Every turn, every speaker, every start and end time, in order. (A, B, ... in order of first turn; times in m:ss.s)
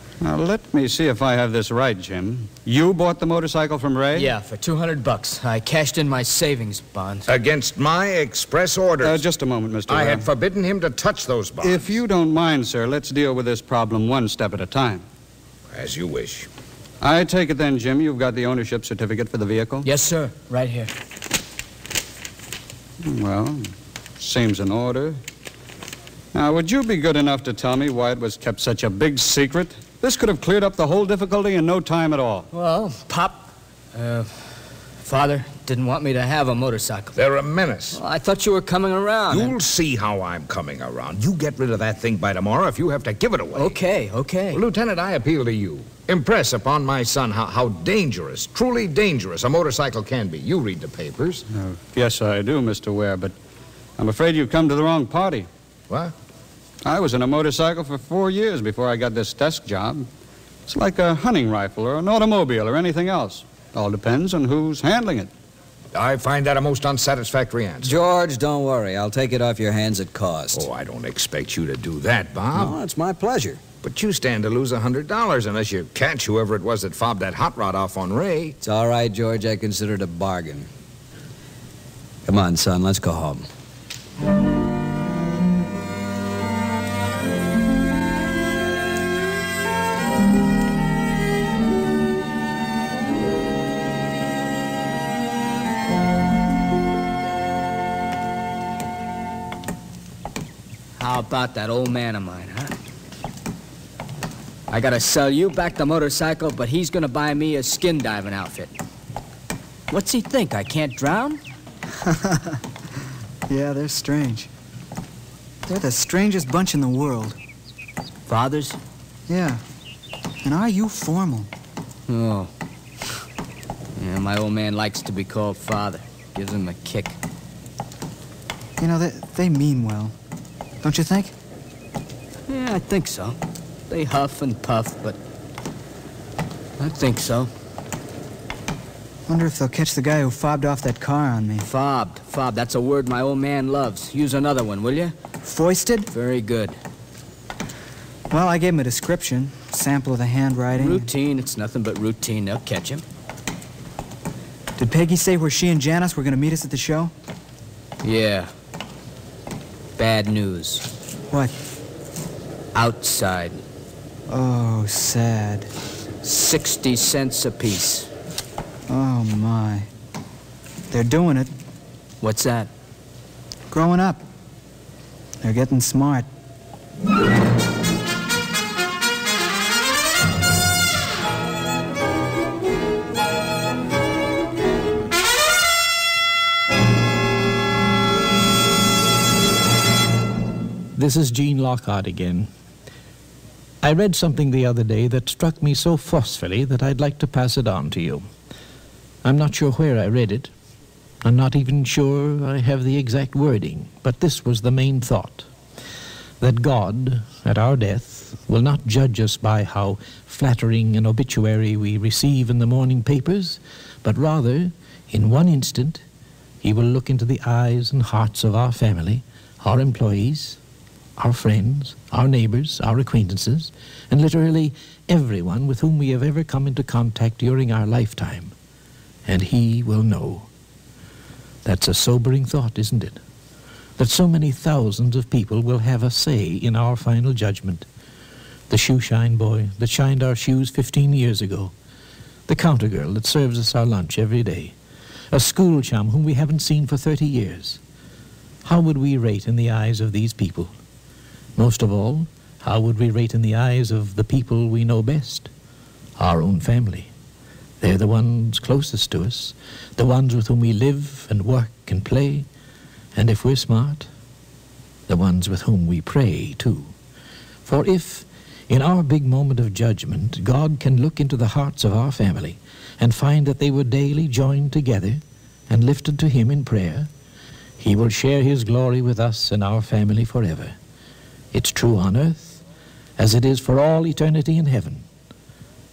0:00.2-0:04.3 A
0:04.1-0:07.3 B
0:07.3-0:09.2 C
0:09.0-0:10.3 A
0:09.9-0:11.9 C
0:11.6-0:15.0 A
0:15.7-0:16.5 C
0:17.0-0:19.9 A
0:19.8-0:20.9 B
0:23.0-0:25.2 A
0:26.3-0:32.5 A
0:32.5-0:37.1 B
0:37.2-0:38.0 C
0:37.9-0:39.6 B
0:39.3-0:43.8 C
0:43.6-0:44.6 B
0:44.5-0:51.4 C
0:51.5-0:53.4 A
0:54.0-0:55.5 A
0:55.9-0:56.2 C
0:56.8-1:00.1 A
1:00.7-1:05.3 A
1:05.9-1:08.0 C
1:07.8-1:10.7 D
1:10.5-1:12.8 C
1:12.5-1:13.6 D
1:13.8-1:18.6 C
1:18.6-1:20.7 D
1:22.3-1:23.5 D
1:41.0-1:42.7 B
1:44.7-1:48.7 B
1:49.9-1:51.4 B
1:52.0-1:52.6 E
1:53.5-1:54.5 E
1:55.7-1:57.4 E
1:58.3-1:58.8 B
1:59.3-1:59.6 E
2:00.4-2:01.5 E
2:02.1-2:02.5 B
2:04.0-2:07.2 B
2:08.8-2:10.1 E
2:10.8-2:11.3 E
2:12.5-2:13.4 B
2:13.9-2:15.2 B
2:16.8-2:17.5 B
2:19.3-2:21.7 E
2:21.6-2:25.1 B
2:25.4-2:26.1 E
2:26.1-2:26.8 B
2:28.3-2:31.1 E
2:30.7-2:33.0 B
2:34.8-2:37.1 E
2:38.0-2:38.5 B
2:40.0-2:40.8 B
2:42.7-2:43.6 B
2:44.3-2:45.7 E
2:46.2-2:48.1 B
2:48.9-2:49.9 E
2:50.9-2:51.5 E
2:52.2-2:52.7 B
2:53.7-2:54.2 E
2:55.4-2:56.3 E
3:11.0-3:12.5 F
3:13.8-3:18.3 F
3:19.2-3:20.5 F
3:21.2-3:25.5 F
3:26.4-3:36.0 F
3:36.6-3:40.6 F
3:41.2-3:48.5 F
3:49.3-3:50.5 F
3:51.6-3:53.2 F
3:54.0-3:57.8 F
3:58.7-4:01.7 F
4:02.5-4:04.8 F
4:05.3-4:07.8 F
4:08.6-4:10.7 F
4:11.6-4:15.5 F
4:16.2-4:17.1 F
4:17.8-4:22.5 F
4:23.2-4:24.1 F
4:25.1-4:26.9 F
4:27.6-4:37.1 F
4:37.8-4:40.8 F
4:41.5-4:42.6 F
4:43.2-4:45.0 F